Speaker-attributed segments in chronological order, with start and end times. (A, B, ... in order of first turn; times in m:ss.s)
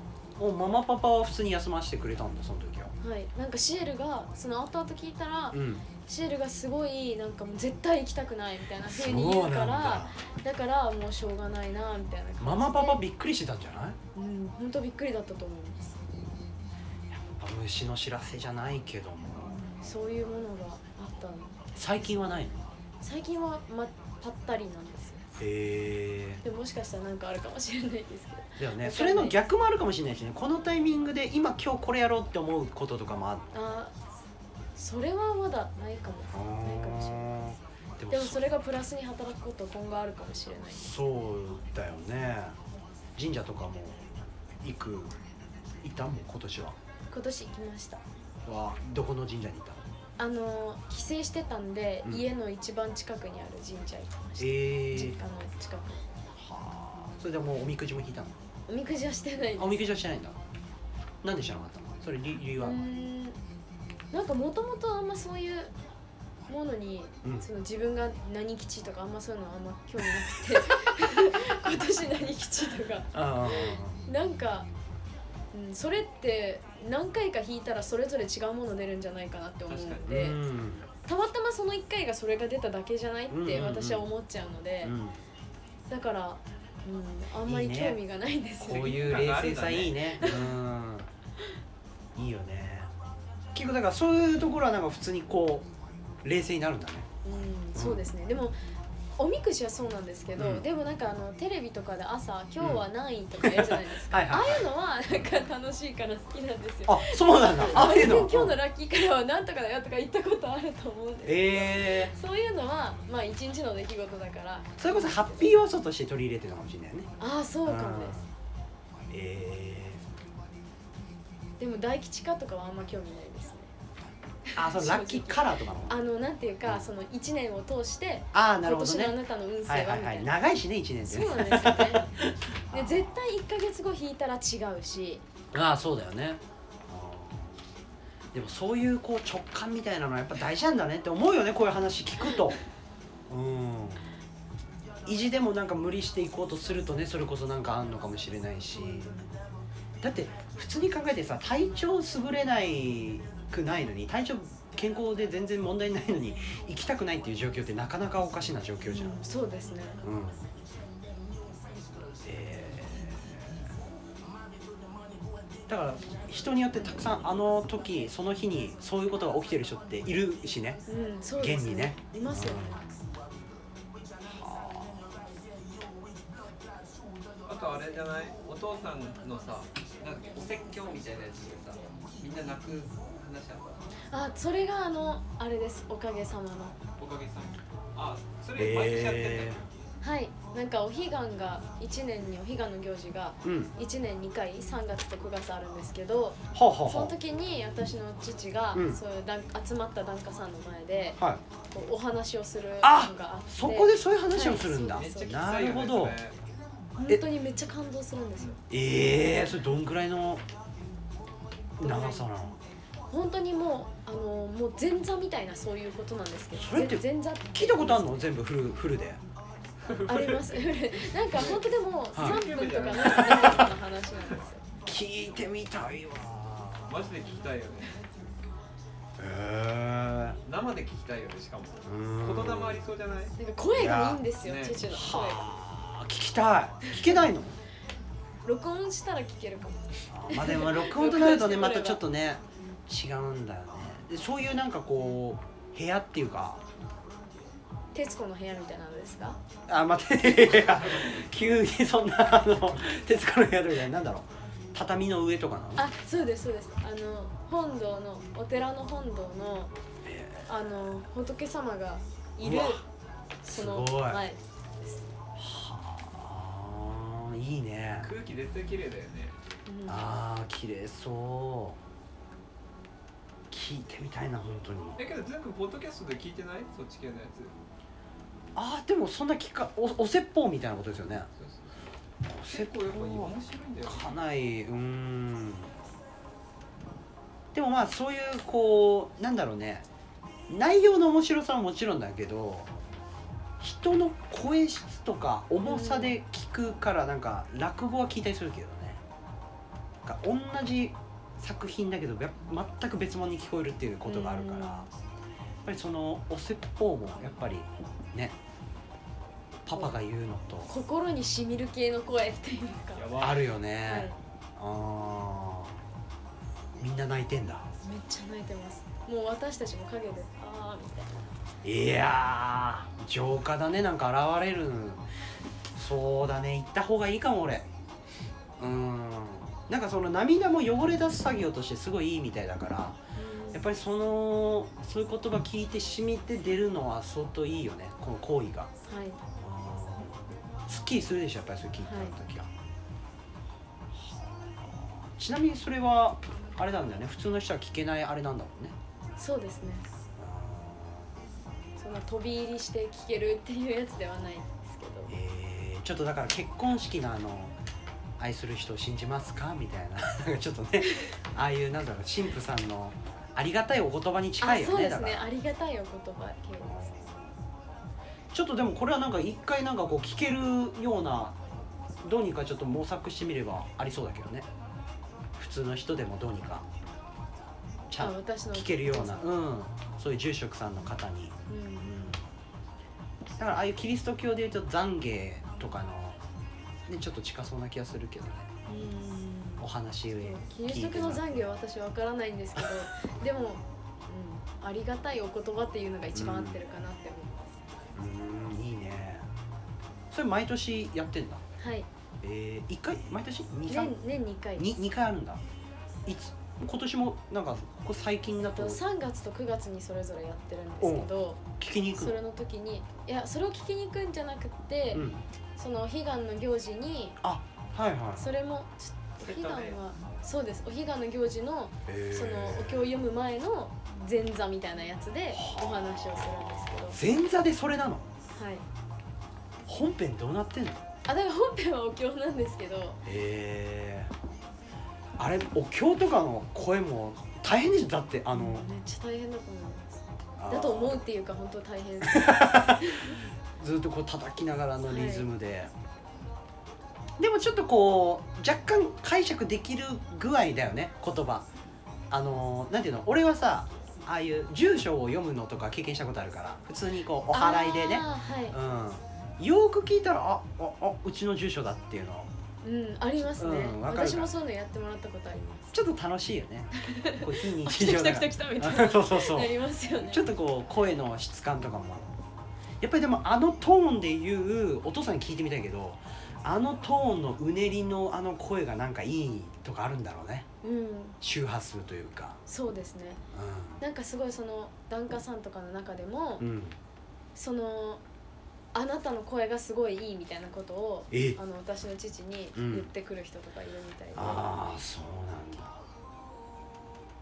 0:00.4-0:02.9 A
0:03.0-0:13.0 B
0:05.5-0:05.8 A
0:08.8-0:10.2 A
0:12.4-0:14.0 A
0:14.1-0:16.0 B
0:17.1-0:19.6 A
0:19.5-0:22.5 B
0:21.7-0:22.7 A
0:23.0-0:25.2 B
0:25.4-0:26.4 A
0:26.4-0:29.4 B
0:28.6-0:33.6 A
0:33.5-0:33.9 B
0:34.8-0:37.5 B
0:36.3-0:38.4 A
0:38.1-0:40.9 B
0:40.7-0:42.6 A
0:43.2-0:44.0 A
0:44.6-0:45.1 A
0:45.8-0:46.8 A
0:47.1-0:48.0 B
0:48.4-0:49.8 A
0:50.2-0:56.1 B
0:54.4-0:55.2 A
0:56.4-0:58.4 A
0:58.7-0:59.8 B
0:59.6-1:00.4 A
1:01.2-1:02.8 A
1:02.6-1:03.4 B
1:04.1-1:05.7 B
1:06.5-1:14.7 B
1:13.1-1:14.0 A
1:15.5-1:20.4 B
1:19.7-1:20.1 C
1:20.0-1:20.9 A
1:21.0-1:24.9 B
1:23.3-1:24.1 A
1:24.8-1:25.2 A
1:25.9-1:29.1 B
1:27.4-1:28.0 A
1:28.6-1:31.1 A
1:28.7-1:30.1 C
1:30.2-1:30.5 B
1:32.2-1:32.9 A
1:33.5-1:35.7 A
1:36.2-1:37.1 A
1:37.2-1:38.6 B
1:37.7-1:38.0 A
1:39.2-1:55.5 B
1:40.4-1:40.6 A
1:42.6-1:42.8 A
1:43.4-1:44.6 A
1:46.8-1:48.6 A
1:51.2-1:52.1 A
1:54.8-1:57.1 A
1:57.2-1:58.2 B
1:57.6-1:58.3 A
1:59.1-2:00.0 A
2:01.6-2:03.7 B
2:04.4-2:10.3 B
2:04.6-2:06.0 A
2:08.3-2:13.1 A
2:11.0-2:12.1 B
2:12.7-2:15.2 B
2:15.5-2:17.6 A
2:18.3-2:22.6 A
2:23.3-2:24.0 A
2:25.0-2:29.2 A
2:28.9-2:29.2 B
2:30.0-2:39.2 A
2:38.9-2:40.0 B
2:40.0-2:40.4 A
2:42.2-2:43.6 A
2:45.7-2:50.8 A
2:50.9-2:52.9 B
2:51.4-2:52.8 A
2:54.2-2:55.0 A
2:57.4-3:03.8 C
3:04.1-3:06.8 B
3:07.0-3:09.7 C
3:08.6-3:09.6 A
3:10.0-3:21.2 B
3:13.4-3:13.7 A
3:16.5-3:17.1 A
3:18.7-3:19.0 A
3:21.7-3:25.4 B
3:22.8-3:26.2 A
3:25.0-3:26.4 C
3:27.0-3:28.6 B
3:28.7-3:30.4 A
3:31.8-3:32.6 A
3:31.8-3:32.3 B
3:33.1-3:38.3 B
3:36.5-3:39.2 A
3:39.8-3:40.6 C
3:40.0-3:44.6 B
3:41.3-3:43.7 C
3:42.1-3:42.4 A
3:44.8-3:46.9 A
3:46.9-3:48.0 C
3:49.2-3:50.4 A
3:50.4-3:53.3 C
3:51.8-3:52.8 A
3:53.4-3:55.4 B
3:53.7-3:54.2 A
3:54.4-3:54.8 C
3:54.9-3:57.6 A
3:58.4-4:02.0 B
4:00.1-4:06.6 A
4:07.9-4:09.4 B
4:09.7-4:15.8 A
4:15.8-4:19.7 B
4:20.0-4:20.5 A
4:20.5-4:22.8 B
4:22.4-4:22.8 A
4:23.4-4:25.0 B
4:23.5-4:24.2 A
4:25.4-4:28.1 A
4:28.0-4:29.3 C
4:29.7-4:30.1 B
4:29.8-4:31.8 A
4:33.5-4:35.0 A
4:35.0-4:37.5 C
4:38.5-4:41.3 A
4:41.4-4:41.7 C
4:42.2-4:45.7 A
4:42.4-4:44.1 C
4:47.5-4:49.8 A
4:50.5-4:52.7 A
4:53.6-4:59.0 A
4:55.6-4:56.2 B
5:00.0-5:04.9 A
5:04.0-5:04.9 B
5:05.6-5:08.4 A
5:09.6-5:10.7 A
5:10.7-5:13.1 B
5:12.9-5:13.5 C
5:13.2-5:15.8 A
5:13.8-5:14.2 B
5:16.8-5:17.7 A
5:17.8-5:21.3 B
5:21.6-5:25.0 A
5:25.7-5:27.7 A
5:28.6-5:33.0 A
5:33.1-5:33.6 B
5:33.5-5:38.7 A
5:38.9-5:39.2 B
5:39.4-5:42.5 A
5:41.8-5:42.1 B
5:43.9-5:48.8 A
5:49.2-5:49.8 B
5:50.2-5:51.2 A
5:51.8-5:55.1 B
5:55.1-5:57.6 A
5:58.2-6:05.3 A
6:04.4-6:06.9 B
6:06.6-6:07.3 A
6:08.3-6:11.4 A
6:12.0-6:14.5 A
6:15.4-6:16.6 A
6:17.9-6:22.2 A
6:18.0-6:19.4 B
6:21.5-6:22.0 B
6:23.4-6:26.2 A
6:26.9-6:28.5 A
6:28.7-6:37.6 B
6:29.6-6:31.4 A
6:36.1-6:36.6 A
6:37.9-6:39.3 A
6:40.1-6:41.5 A
6:41.6-6:41.9 B
6:42.2-6:44.0 A
6:43.7-6:44.7 B
6:44.6-6:45.4 A
6:46.0-6:48.8 A
6:48.5-6:51.4 B
6:50.8-6:52.2 A
6:51.9-6:57.2 B
6:54.9-6:55.2 A
6:57.2-6:58.2 A
6:58.2-7:07.0 B
6:59.2-6:59.8 C
7:01.9-7:02.9 A
7:05.3-7:08.1 A
7:08.3-7:08.6 B
7:09.6-7:10.8 A
7:11.0-7:13.0 B
7:13.0-7:14.1 A
7:15.2-7:18.7 A
7:18.3-7:23.2 B
7:20.4-7:21.0 A
7:22.0-7:25.7 A
7:24.9-7:25.3 B
7:27.2-7:31.4 A
7:32.1-7:42.3 A
7:37.3-7:38.6 B
7:42.6-7:45.7 B
7:43.2-7:44.3 A
7:45.7-7:52.1 A
7:46.8-7:50.3 B
7:52.8-8:00.4 A
8:00.6-8:01.2 B
8:01.2-8:02.4 A
8:02.5-8:03.2 B
8:03.3-8:03.8 A
8:03.8-8:06.4 B
8:06.4-8:06.8 A
8:07.4-8:08.0 B
8:08.7-8:14.6 B
8:11.1-8:11.4 A
8:12.5-8:12.9 A
8:14.1-8:15.8 A